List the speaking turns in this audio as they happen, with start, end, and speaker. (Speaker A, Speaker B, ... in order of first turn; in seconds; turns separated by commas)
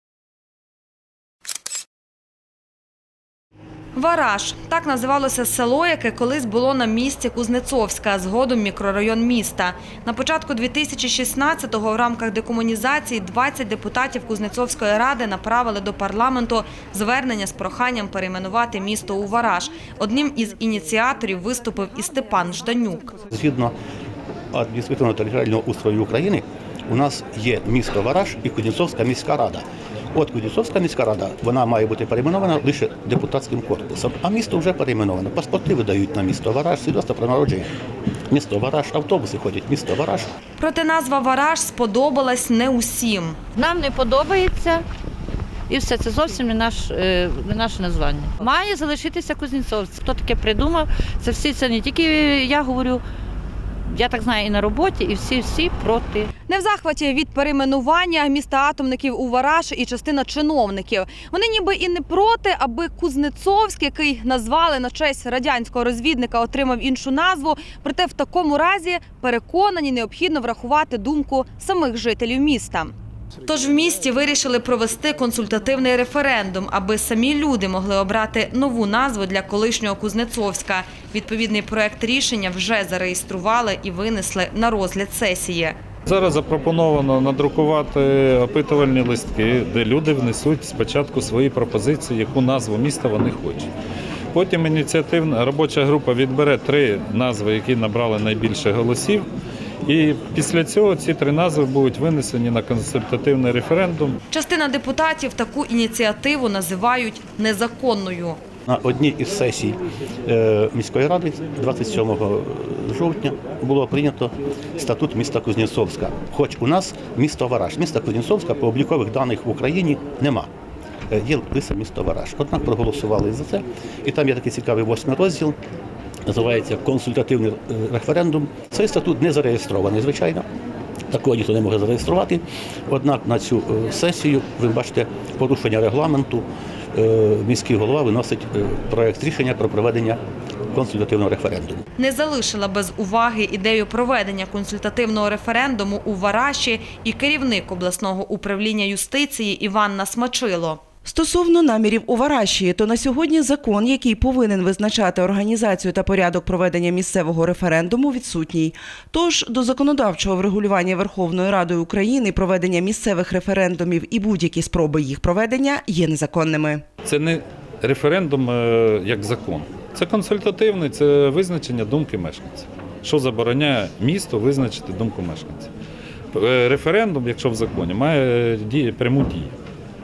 Speaker A: 4.0-23.1, Speaker B: 23.3-23.8, Speaker B: 24.5-37.7, Speaker B: 38.3-40.3, Speaker A: 40.6-43.4, Speaker C: 43.5-44.9, Speaker C: 45.7-53.0, Speaker C: 53.9-56.3, Speaker A: 56.5-72.9, Speaker A: 73.5-85.8, Speaker D: 86.1-93.7, Speaker D: 94.3-99.3, Speaker D: 99.9-104.2, Speaker A: 104.3-108.4, Speaker B: 108.7-120.5, Speaker B: 121.1-125.6, Speaker B: 126.3-130.5, Speaker B: 131.1-140.2, Speaker B: 140.7-141.8, Speaker A: 142.0-150.8, Speaker E: 151.1-166.8, Speaker D: 167.1-175.7, Speaker D: 176.3-179.5